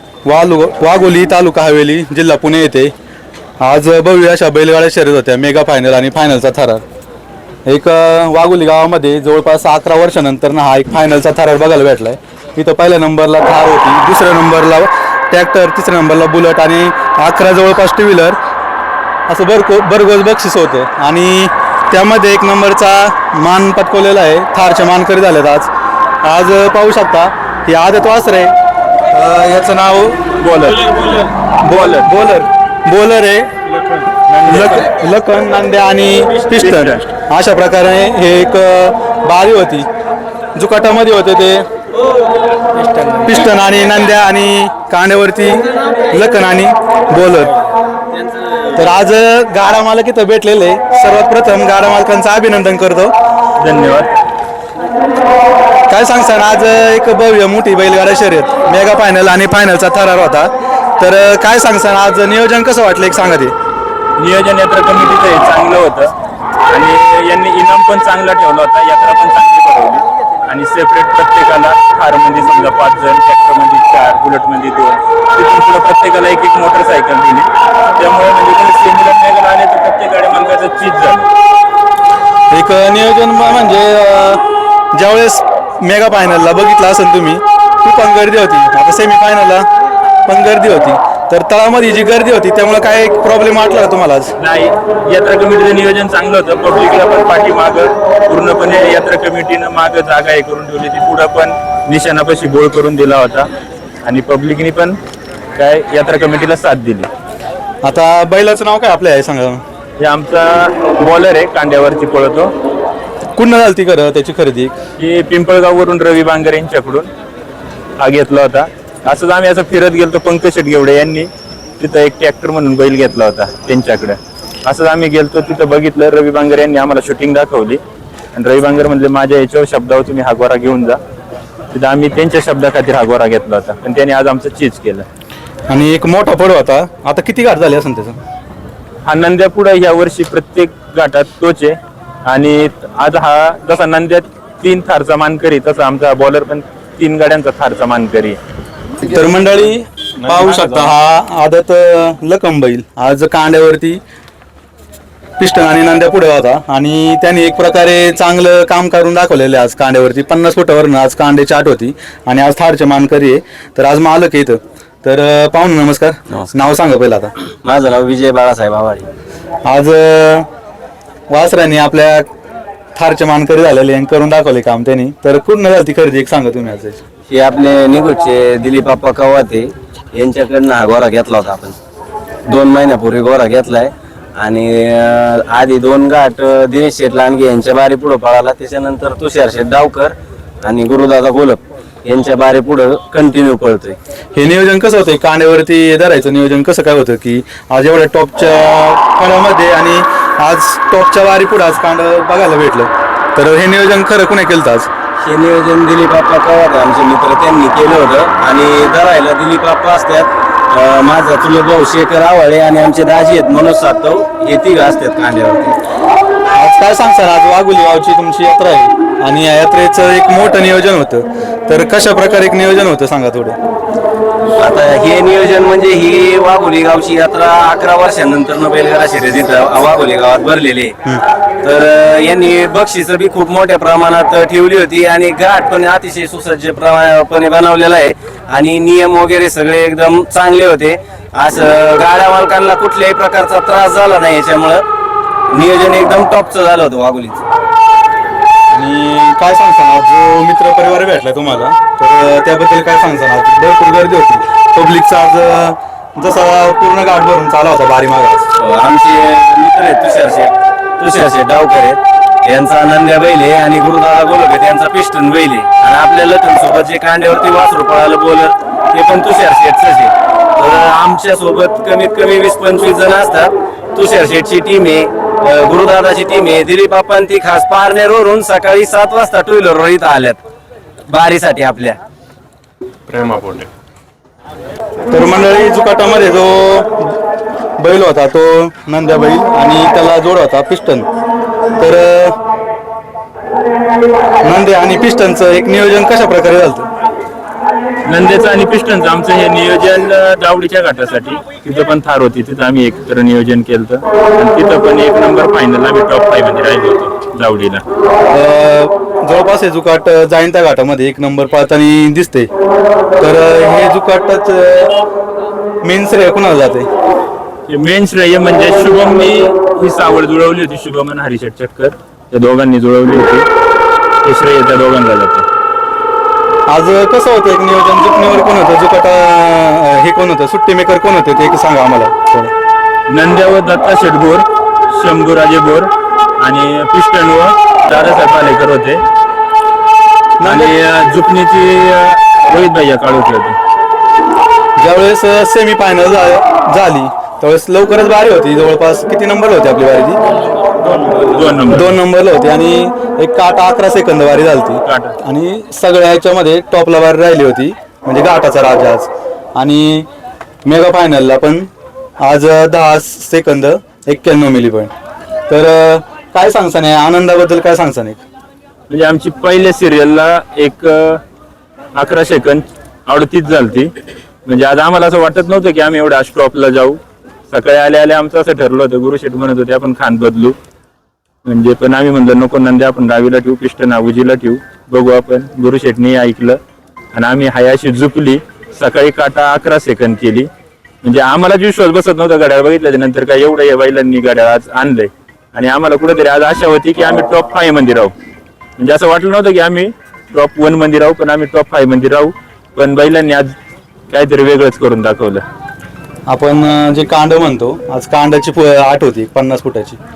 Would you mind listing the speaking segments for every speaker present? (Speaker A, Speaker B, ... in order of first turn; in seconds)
Speaker A: 0.3-2.9, 3.6-6.8, 7.7-18.4, 19.3-25.7, 26.2-28.5, 29.1-30.2, 31.6-33.5, 34.3-39.9, 40.6-41.6, 43.2-47.5, 48.8-53.1, 55.9-63.5, 82.5-89.7, 90.3-94.3, 107.8-109.6, 113.4-114.8, 135.7-138.2, 149.1-154.0, 155.4-167.3, 169.7-170.5, 171.3-172.3, 173.0-177.0, 194.3-204.9, 216.6-223.6, 248.7-258.4, 285.1-287.2, 287.8-291.1, 291.8-292.4, 294.4-296.9, 308.3-312.5, 313.2-315.0, 315.8-316.9, 326.7-332.5, 340.4-340.8, 344.8-350.2, 351.7-360.1, 360.6-361.7, 362.2-364.9, 365.5-368.2, 406.3-410.0
Speaker B: 30.4-32.1, 34.5-34.9, 36.5-37.1, 53.6-54.1, 64.2-66.1, 66.7-81.3, 94.4-103.5, 104.0-105.0, 105.5-107.1, 110.0-112.5, 115.0-117.1, 118.0-127.8, 128.3-131.0, 131.7-135.1, 139.0-148.4, 298.1-307.8, 317.7-323.5, 324.2-325.5, 333.1-339.0, 340.4-343.6, 351.1-351.9, 354.9-355.1, 368.9-371.2, 371.9-373.9, 374.5-380.6, 381.4-386.6, 387.1-390.5, 391.0-398.1, 398.8-403.5, 404.1-405.4
Speaker C: 42.8-43.2, 48.2-48.7, 167.6-169.1, 177.3-181.8, 182.5-194.0, 205.2-215.8, 224.6-231.0, 231.6-244.8, 245.5-247.4, 258.6-280.4, 281.1-282.0, 283.2-283.6